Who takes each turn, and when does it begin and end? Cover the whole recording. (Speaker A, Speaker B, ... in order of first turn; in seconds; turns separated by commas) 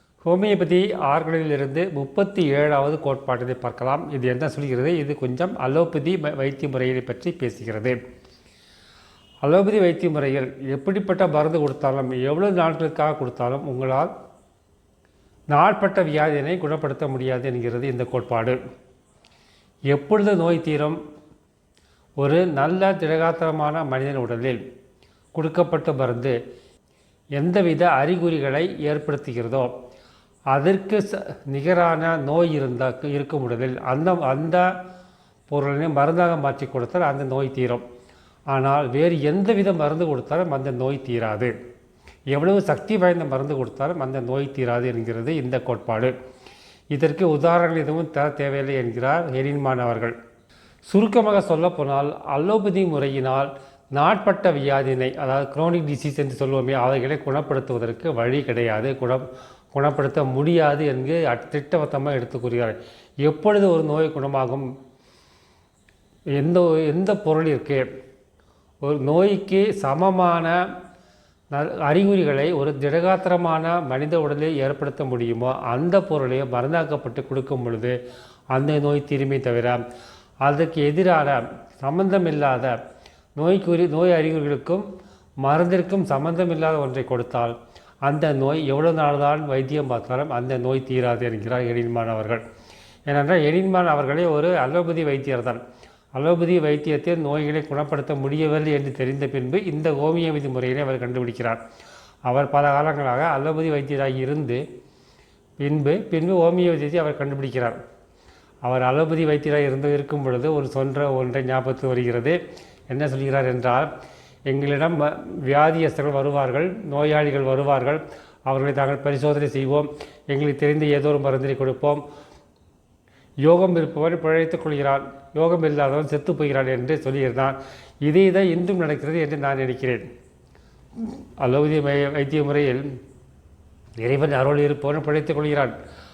Speaker A: 0.2-8.0, Speaker A: 9.4-14.1, Speaker A: 15.5-18.6, Speaker A: 19.9-21.0, Speaker A: 22.2-24.6, Speaker A: 25.3-26.4, Speaker A: 27.4-29.7, Speaker A: 30.5-34.7, Speaker A: 35.5-37.8, Speaker A: 38.5-41.5, Speaker A: 42.3-46.1, Speaker A: 46.9-50.1, Speaker A: 50.9-64.7, Speaker A: 66.4-67.8, Speaker A: 68.8-70.6, Speaker A: 71.5-78.0, Speaker A: 78.5-79.8, Speaker A: 80.4-82.8, Speaker A: 83.4-84.9, Speaker A: 85.4-92.4, Speaker A: 93.1-95.6, Speaker A: 96.2-101.6, Speaker A: 102.3-104.6, Speaker A: 105.6-107.8, Speaker A: 108.6-112.4, Speaker A: 112.9-113.9, Speaker A: 114.5-122.0, Speaker A: 123.4-130.1, Speaker A: 131.0-132.9, Speaker A: 134.0-135.7